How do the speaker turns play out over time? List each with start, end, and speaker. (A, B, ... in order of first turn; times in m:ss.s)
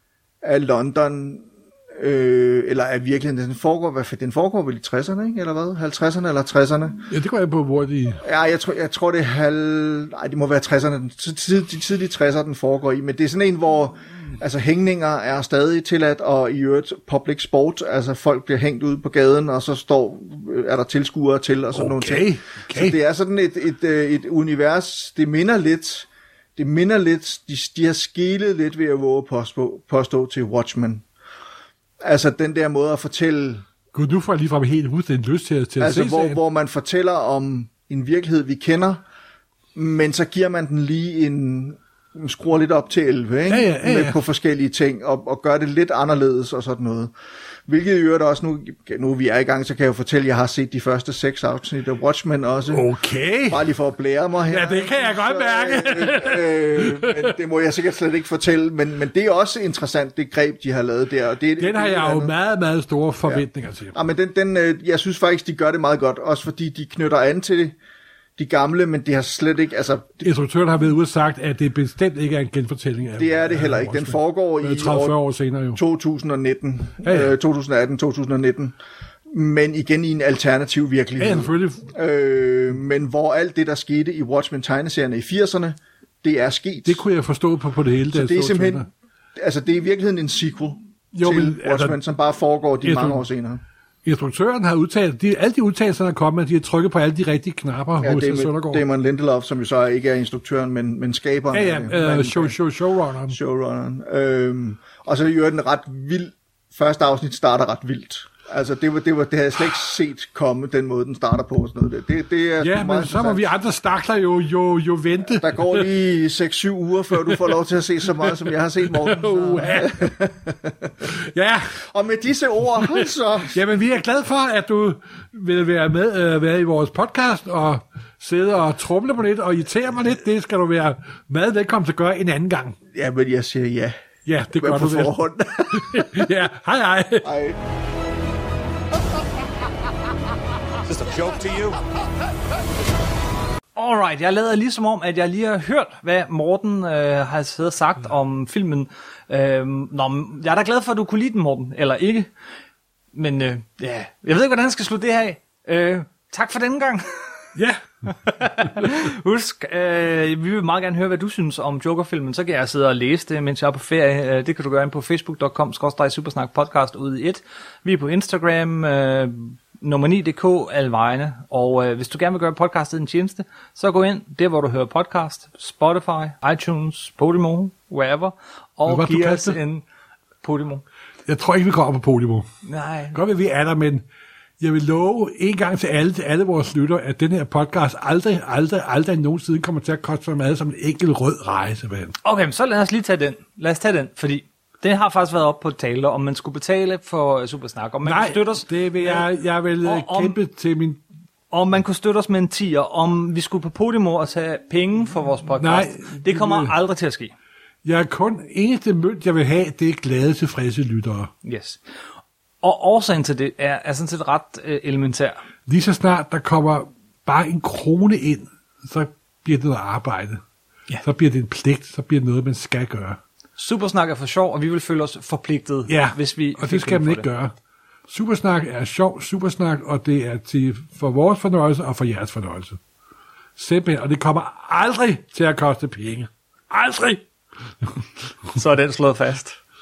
0:00.4-0:07.0 A
0:07.1-0:08.2 B
0:08.2-0:31.0 A
0:21.7-0:23.0 B
0:32.0-0:33.6 A
0:33.9-0:36.4 B
0:35.8-0:39.0 A
0:39.7-0:47.1 A
0:43.5-0:44.2 B
0:47.7-0:52.9 A
0:52.7-0:53.6 B
0:53.5-1:02.3 A
0:54.5-0:57.3 B
1:01.6-1:03.9 B
1:03.2-1:07.7 A
1:08.4-1:10.2 A
1:10.2-1:15.8 B
1:13.2-1:15.2 A
1:15.7-1:18.7 A
1:17.0-1:17.4 B
1:19.3-1:27.0 A
1:21.2-1:21.9 B
1:26.8-1:28.9 B
1:28.1-1:33.6 A
1:31.1-1:32.0 B
1:32.8-1:33.2 B
1:34.0-1:38.8 B
1:38.0-1:42.6 A
1:41.5-1:43.4 B
1:43.3-1:53.4 A
1:52.6-1:55.9 B
1:55.3-2:01.1 A
1:57.2-1:57.5 B
1:58.2-2:00.1 B
2:01.0-2:01.8 B
2:01.7-2:03.6 A
2:02.8-2:12.8 B
2:12.9-2:14.0 A
2:14.2-2:17.3 B
2:14.6-2:16.3 A
2:17.2-2:17.6 A
2:21.0-2:21.7 A
2:23.8-2:32.3 C
2:33.1-2:37.5 C
2:37.5-2:37.8 B
2:38.1-2:59.8 C
2:58.9-2:59.6 B
3:00.4-3:00.8 C
3:01.2-3:02.5 B
3:02.6-3:03.2 C
3:03.1-3:04.0 B
3:04.6-3:12.1 B
3:12.2-3:19.3 C
3:18.0-3:21.0 B
3:19.8-3:20.4 C
3:21.5-3:27.3 C
3:25.6-3:26.7 B
3:27.8-3:31.3 B
3:31.4-3:31.8 C
3:32.6-3:35.4 C
3:35.7-3:40.4 B
3:41.0-3:43.2 B
3:43.6-3:47.2 C
3:45.9-3:47.5 B
3:48.1-3:52.8 B
3:53.6-3:57.2 B
3:58.5-3:59.6 C